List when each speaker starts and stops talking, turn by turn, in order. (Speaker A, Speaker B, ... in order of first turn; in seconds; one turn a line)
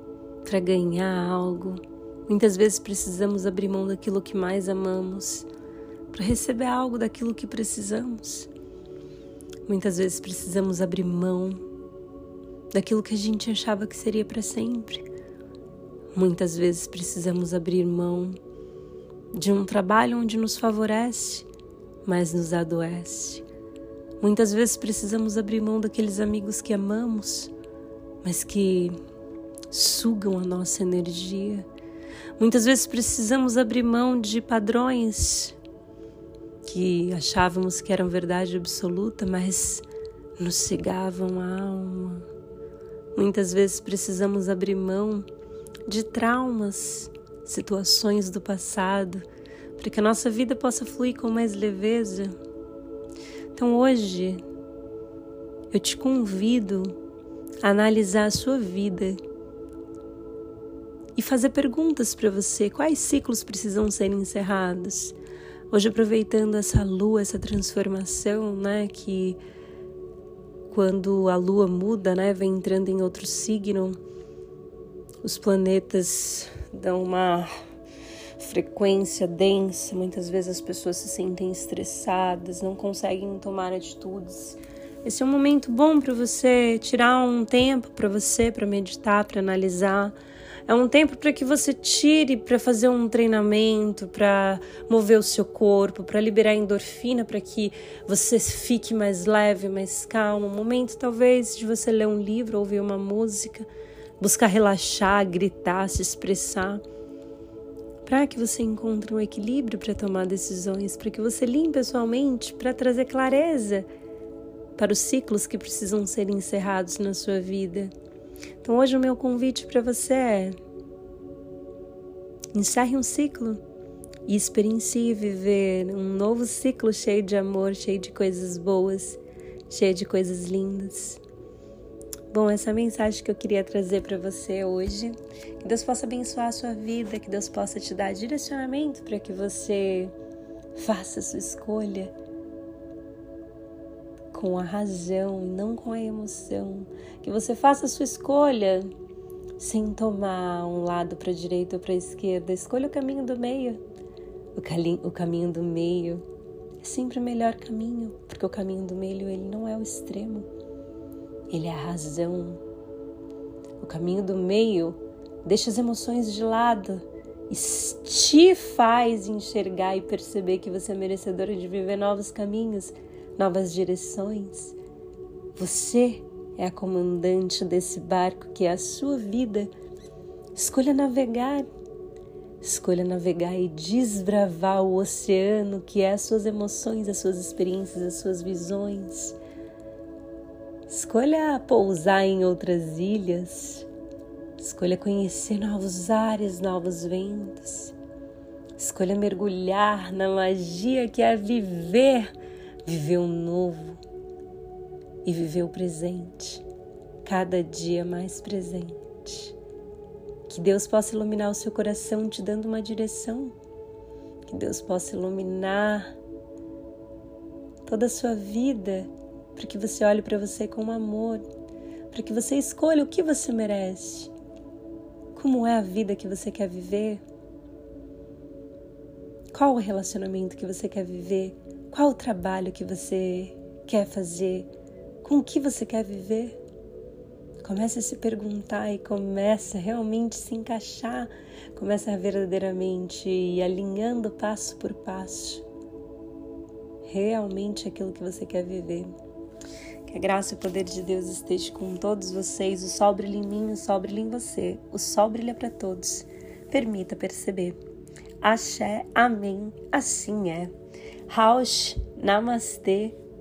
Speaker A: 0.5-5.5
Speaker A: 6.1-8.5
Speaker A: 9.7-11.6
Speaker A: 12.7-15.1
Speaker A: 16.1-18.4
Speaker A: 19.3-21.5
Speaker A: 22.0-23.4
Speaker A: 24.2-27.5
Speaker A: 28.2-29.0
Speaker A: 29.7-31.7
Speaker A: 32.4-35.6
Speaker A: 36.6-39.9
Speaker A: 40.4-42.3
Speaker A: 43.1-45.3
Speaker A: 45.9-49.3
Speaker A: 49.8-52.4
Speaker A: 53.5-54.4
Speaker A: 55.7-57.0
Speaker A: 57.6-59.2
Speaker A: 61.1-65.2
Speaker A: 65.7-69.4
Speaker A: 70.7-74.0
Speaker A: 75.2-77.5
Speaker A: 78.4-90.2
Speaker A: 90.7-103.7
Speaker A: 104.2-106.8
Speaker A: 108.0-113.9
Speaker A: 114.8-117.9
Speaker A: 118.6-120.6
Speaker A: 122.5-123.6
Speaker A: 124.3-131.2
Speaker A: 132.3-140.1
Speaker A: 140.8-142.1
Speaker A: 144.3-148.9
Speaker A: 149.6-153.8
Speaker A: 154.6-156.2
Speaker A: 156.8-160.5
Speaker A: 161.5-162.6
Speaker A: 163.8-174.8
Speaker A: 175.6-179.7
Speaker A: 180.6-181.7
Speaker A: 182.6-189.4
Speaker A: 190.9-193.9
Speaker A: 194.6-197.9
Speaker A: 198.8-202.3
Speaker A: 202.8-204.0
Speaker A: 205.2-206.6
Speaker A: 207.2-209.6
Speaker A: 210.5-213.6
Speaker A: 214.5-216.1
Speaker A: 217.9-221.5
Speaker A: 222.1-224.3
Speaker A: 225.3-227.2
Speaker A: 229.5-234.7
Speaker A: 235.2-236.6
Speaker A: 237.6-245.6
Speaker A: 247.1-249.1
Speaker A: 250.1-257.8
Speaker A: 258.4-260.7
Speaker A: 261.3-263.2